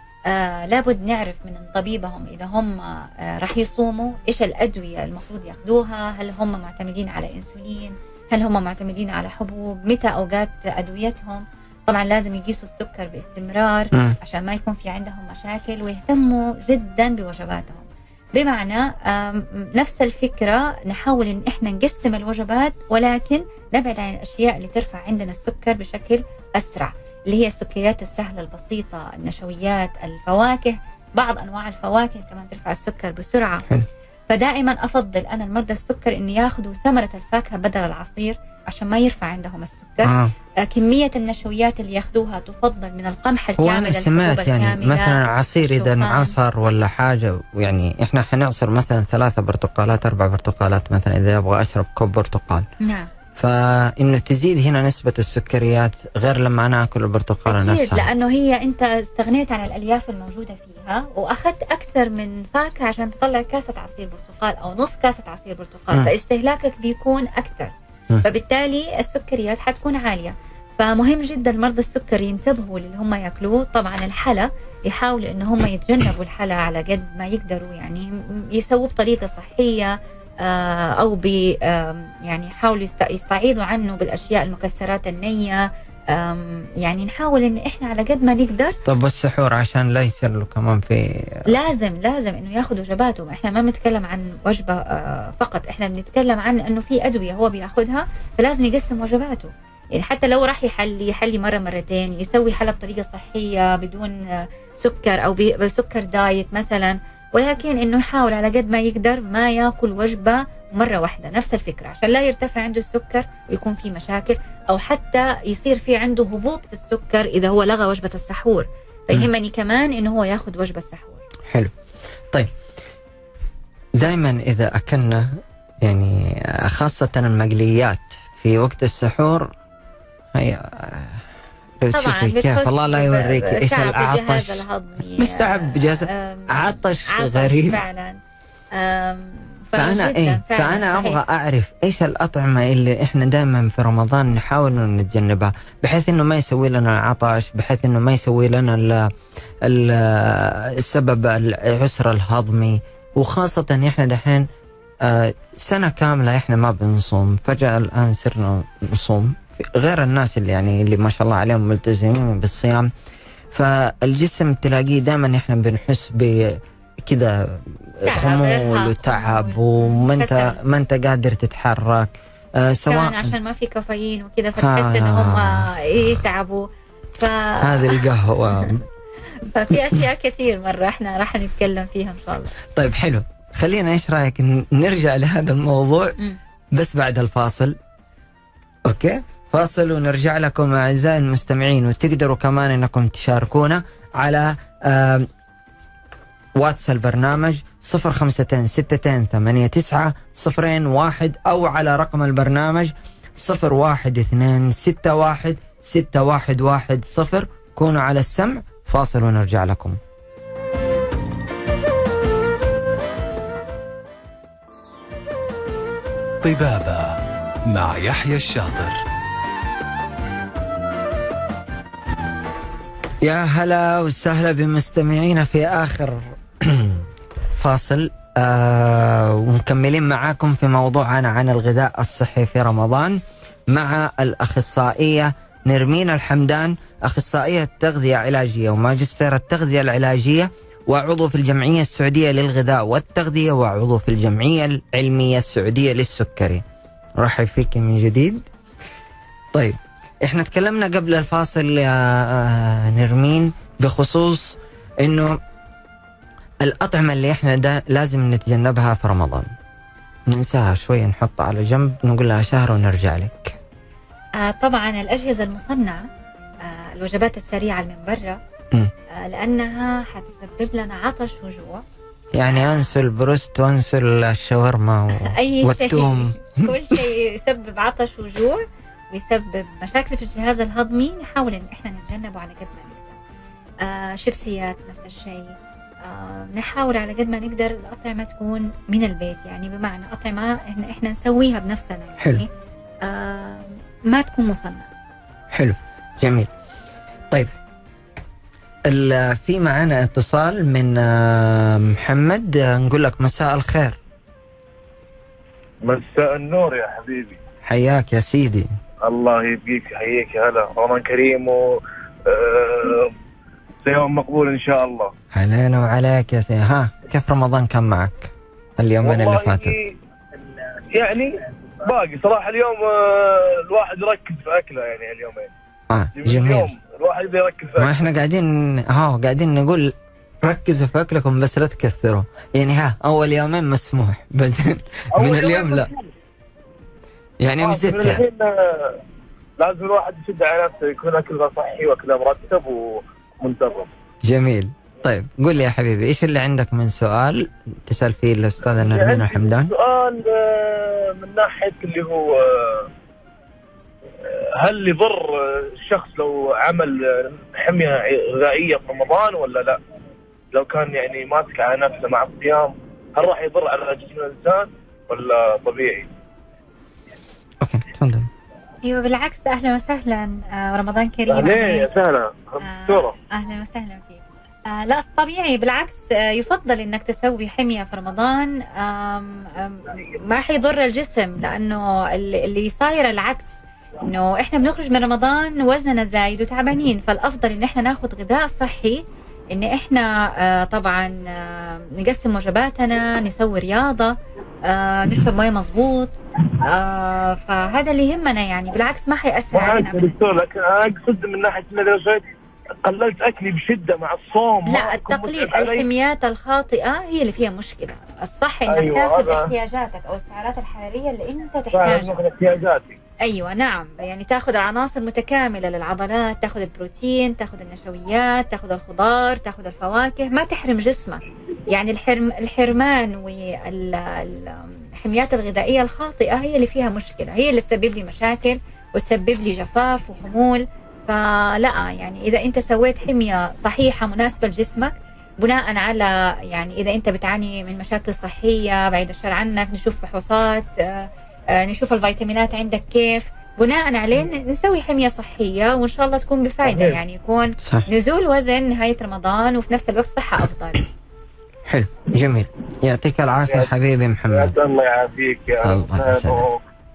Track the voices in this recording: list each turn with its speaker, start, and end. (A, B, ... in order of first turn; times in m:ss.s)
0:00.3-0:33.6 A
0:34.3-0:46.4 A
0:40.0-0:40.3 B
0:43.6-0:52.6 B
0:52.8-0:53.1 A
0:53.4-0:58.0 B
0:57.5-1:28.8 A
1:28.8-1:31.5 B
1:31.5-2:01.2 A
2:04.0-2:09.5 B
2:10.3-2:11.2 B
2:11.8-2:17.8 B
2:11.9-2:18.2 A
2:18.7-2:21.2 A
2:19.7-2:34.5 B
2:35.0-2:42.9 B
2:43.5-2:53.4 B
2:48.0-2:50.6 A
2:52.9-2:58.0 A
2:54.6-2:55.6 B
2:57.6-2:58.8 B
2:59.4-3:02.5 A
3:02.7-3:06.2 B
3:06.7-3:07.8 B
3:08.8-3:15.3 B
3:16.6-3:30.0 B
3:36.4-3:39.0 C
3:43.2-3:47.0 B
3:47.6-4:06.6 B
4:07.2-4:08.4 B
4:09.5-4:15.4 B
4:16.6-4:19.5 B
4:20.3-4:23.6 B
4:24.4-4:26.1 A
4:26.6-4:28.4 A
4:29.1-4:31.8 A
4:32.3-4:37.0 B
4:32.5-4:32.9 A
4:35.1-4:43.2 A
4:43.8-4:52.5 A
4:53.0-4:54.9 A
4:55.5-4:56.5 B
4:58.9-5:04.0 B
5:05.8-5:07.4 D
5:07.6-5:08.7 B
5:09.0-5:13.1 D
5:13.8-5:15.1 D
5:15.3-5:19.8 B
5:19.0-5:19.9 D
5:20.9-5:25.5 D
5:25.9-5:26.7 B
5:26.2-5:28.0 D
5:27.8-5:35.9 B
5:35.1-5:36.1 D
5:37.4-5:38.2 B
5:37.6-5:39.0 D
5:39.6-5:43.9 D
5:44.2-5:49.7 B
5:48.8-5:52.9 D
5:54.2-5:59.8 D
6:00.5-6:06.1 D
6:07.6-6:08.3 B
6:08.8-6:11.9 A
6:11.3-6:13.2 D
6:12.6-6:40.2 A
6:39.5-6:42.2 D
6:42.8-6:45.9 D
6:44.6-6:52.2 A
6:48.7-6:49.5 D
6:51.7-6:53.0 D
6:53.2-7:30.8 A
7:26.6-7:27.0 D
7:27.6-7:27.9 B
7:31.7-7:34.5 B
7:34.3-7:36.6 D
7:35.6-7:36.4 B